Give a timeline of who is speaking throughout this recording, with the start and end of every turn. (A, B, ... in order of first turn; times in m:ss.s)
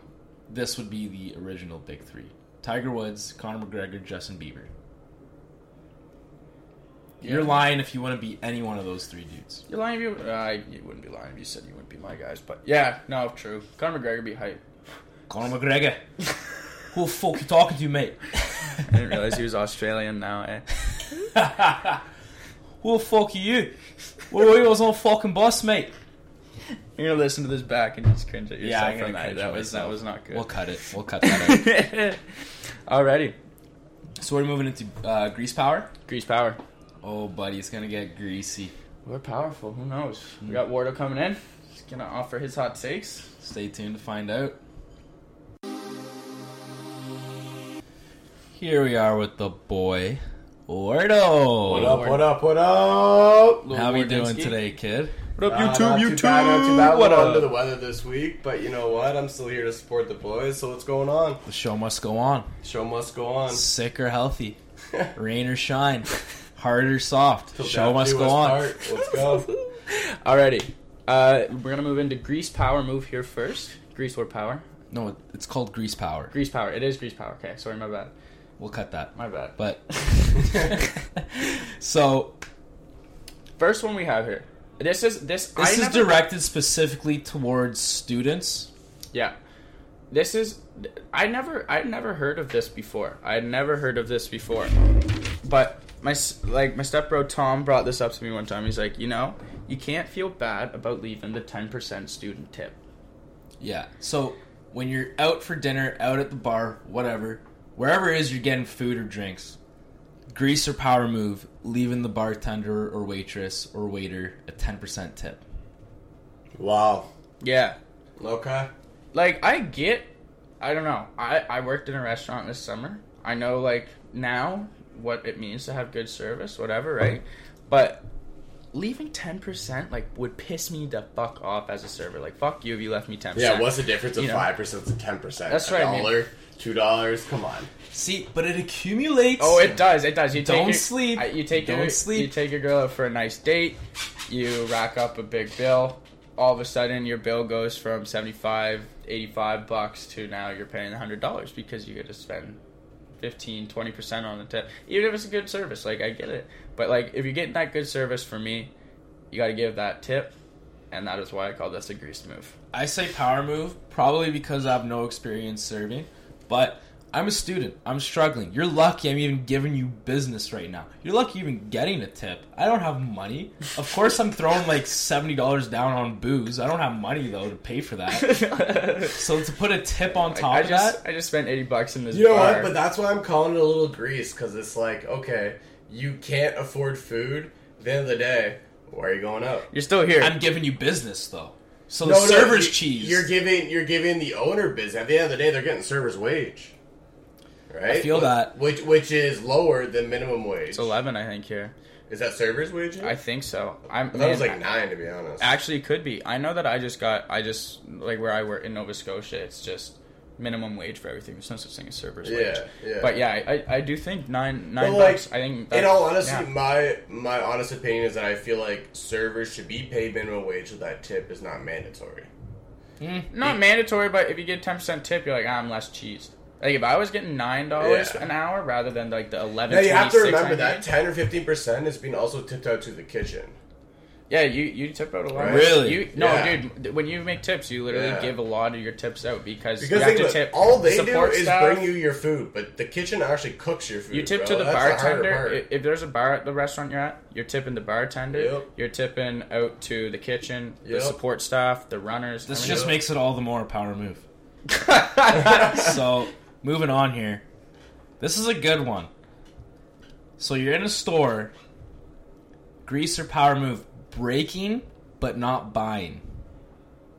0:00.5-0:04.7 A
0:07.2-0:07.5 B
0:07.2-0:09.6 A
0:09.7-0:14.6 B
0:15.3-0:16.0 A
0:16.9-0:18.8 A
0:18.8-0:20.6 B
0:21.3-0:22.0 A
0:22.8-0:23.7 A
0:24.3-0:25.9 A
0:27.0-0:30.5 B
0:28.6-0:31.7 A
0:31.2-0:32.2 B
0:32.9-0:33.3 B
0:34.2-0:35.9 A
0:36.1-0:36.6 B
0:37.0-0:38.7 A
0:39.0-0:43.3 B
0:43.4-0:44.6 A
0:48.5-0:52.0 A
0:51.7-0:53.6 C
0:51.7-0:52.3 B
0:53.6-0:54.6 B
0:53.7-0:55.1 A
0:55.4-0:57.5 B
0:55.5-1:01.4 C
1:01.4-1:02.5 A
1:02.6-1:03.6 C
1:03.5-1:04.6 A
1:05.1-1:08.7 A
1:07.5-1:09.5 C
1:08.9-1:14.6 B
1:14.9-1:16.3 A
1:16.3-1:18.1 B
1:18.6-1:22.4 A
1:19.1-1:19.6 B
1:23.6-1:26.2 B
1:25.6-1:28.7 A
1:30.1-1:34.7 B
1:35.4-1:42.8 B
1:43.6-1:49.6 A
1:50.3-1:55.4 A
1:56.5-1:57.1 C
1:57.4-1:57.8 B
1:58.2-1:58.7 C
1:59.1-2:08.0 B
2:08.7-2:14.5 B
2:13.3-2:17.7 C
2:15.5-2:16.2 B
2:17.9-2:22.3 A
2:19.4-2:32.6 B
2:33.2-2:38.7 B
2:39.3-2:40.3 B
2:40.9-2:42.5 B
2:42.7-2:58.5 A
2:58.1-2:59.2 B
2:59.1-3:01.0 A
3:00.2-3:02.7 B
3:02.1-3:09.7 C
3:09.7-3:10.4 B
3:10.2-3:13.3 A
3:12.0-3:16.7 C
3:17.7-3:20.9 C
3:17.8-3:18.5 A
3:20.7-3:21.7 B
3:22.1-3:23.2 C
3:23.0-3:24.6 B
3:24.1-3:25.5 C
3:25.4-3:36.5 B
3:32.2-3:33.2 C
3:34.8-3:42.3 C
3:43.0-3:43.3 A
3:43.3-3:50.8 B
3:47.8-3:48.2 C
3:49.7-3:53.6 C
3:54.3-4:01.8 B
3:55.3-3:56.6 C
3:55.4-3:56.1 A
3:57.9-3:58.3 C
3:59.8-4:05.6 C
4:04.1-4:13.0 B
4:08.3-4:08.7 C
4:10.8-4:11.2 C
4:12.5-4:14.2 A
4:12.5-4:13.0 C
4:14.7-4:15.8 B
4:15.4-4:17.4 A
4:18.2-4:19.1 A
4:20.4-4:21.5 A
4:22.8-4:26.2 A